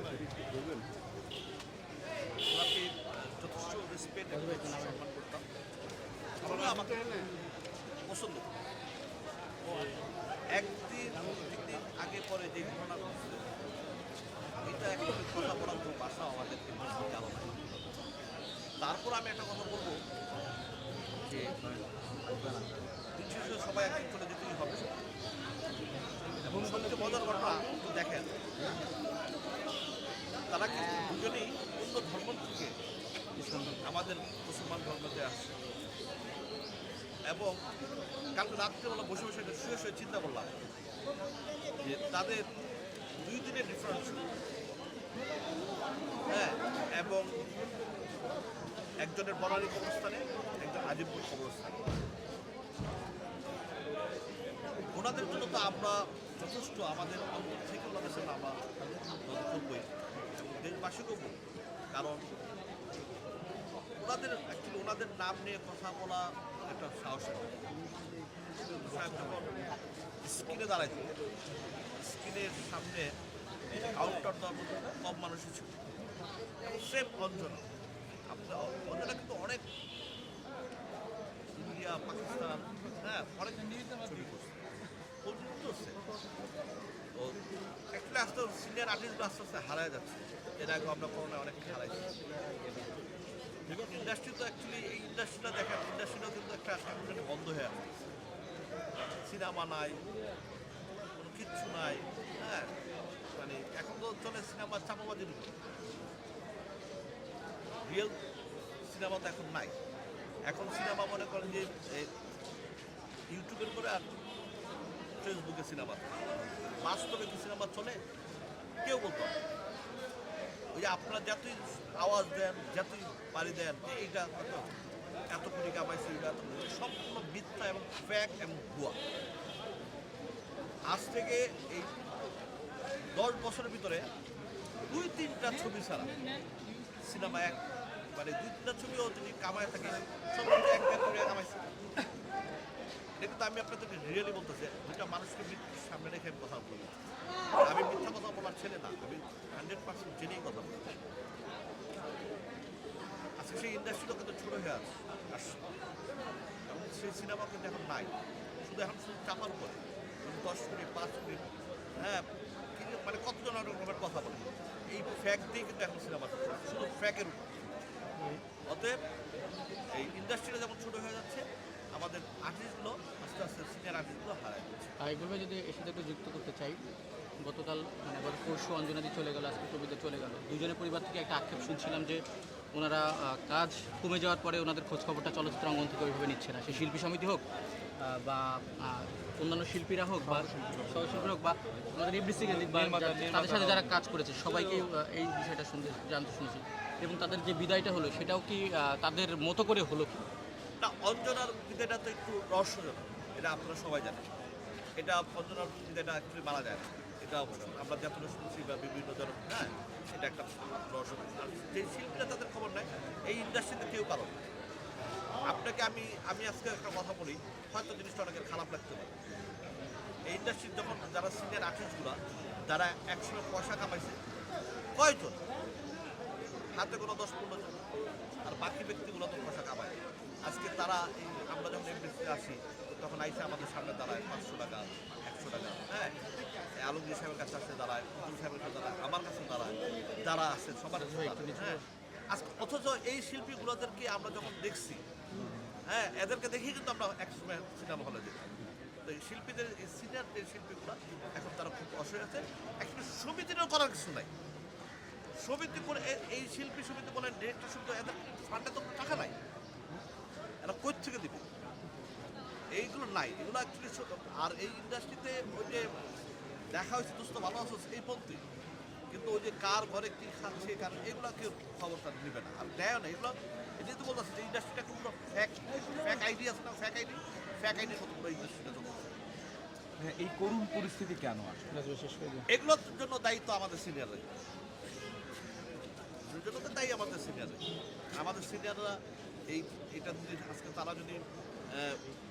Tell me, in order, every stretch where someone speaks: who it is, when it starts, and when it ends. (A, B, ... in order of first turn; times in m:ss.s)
0:00.3-0:00.8 A
0:02.5-0:05.4 B
0:04.3-0:05.0 C
0:06.4-0:07.2 B
0:08.1-0:08.5 B
0:10.6-0:13.4 B
0:14.6-0:18.0 B
0:18.8-0:20.0 B
0:21.3-0:21.5 C
0:23.2-0:24.9 B
0:26.4-0:28.3 B
0:30.5-0:32.7 B
0:33.4-0:33.8 C
0:33.8-0:35.6 B
0:37.3-0:37.6 B
0:38.4-0:40.5 B
0:41.8-0:42.4 B
0:43.2-0:44.3 B
0:46.3-0:47.3 B
0:49.0-0:51.8 B
0:54.9-0:58.6 B
0:59.2-0:59.9 B
1:00.4-1:01.4 B
1:01.9-1:02.2 B
1:04.0-1:07.7 B
1:08.6-1:09.6 B
1:10.2-1:11.1 B
1:12.0-1:13.1 B
1:13.9-1:15.8 B
1:16.7-1:17.6 B
1:18.3-1:19.6 B
1:21.6-1:24.6 B
1:25.2-1:26.0 B
1:27.9-1:32.1 B
1:33.6-1:38.0 B
1:39.2-1:40.0 B
1:41.2-1:42.7 B
1:43.3-1:45.6 B
1:47.8-1:48.2 B
1:48.8-1:49.7 B
1:50.5-1:52.1 B
1:53.3-1:54.0 B
1:55.2-1:56.2 B
1:56.8-1:58.0 B
1:58.8-1:59.3 B
2:00.7-2:04.7 B
2:05.3-2:09.0 B
2:10.9-2:12.0 B
2:13.1-2:14.0 B
2:14.9-2:16.1 B
2:17.0-2:17.6 B
2:18.2-2:21.7 B
2:23.2-2:27.0 B
2:27.6-2:30.9 B
2:33.4-2:35.6 B
2:36.7-2:42.2 B
2:42.8-2:47.5 B
2:48.7-2:49.0 B
2:49.9-2:54.9 B
2:55.0-2:56.8 C
2:57.4-3:02.2 C
3:02.7-3:07.4 C
3:08.0-3:20.3 C
3:10.2-3:11.3 A
3:12.4-3:14.9 A
3:20.8-3:24.3 B
3:25.0-3:34.4 B
3:35.4-3:39.1 B
3:40.3-3:44.2 B
3:45.0-3:45.4 B
3:46.8-3:47.9 B
3:48.4-3:56.1 B
3:56.8-4:01.8 B
4:01.0-4:01.8 C
4:02.3-4:05.0 B
4:05.9-4:08.5 B
4:09.0-4:14.3 B
4:15.4-4:19.4 B
4:20.6-4:21.5 B
4:22.7-4:25.8 B
4:26.7-4:28.4 B
4:29.1-4:39.1 B
4:40.0-4:41.8 A
4:41.7-4:42.4 C
4:42.5-4:44.3 B
4:46.3-4:47.6 B
4:48.2-4:49.0 B
4:49.5-4:52.0 B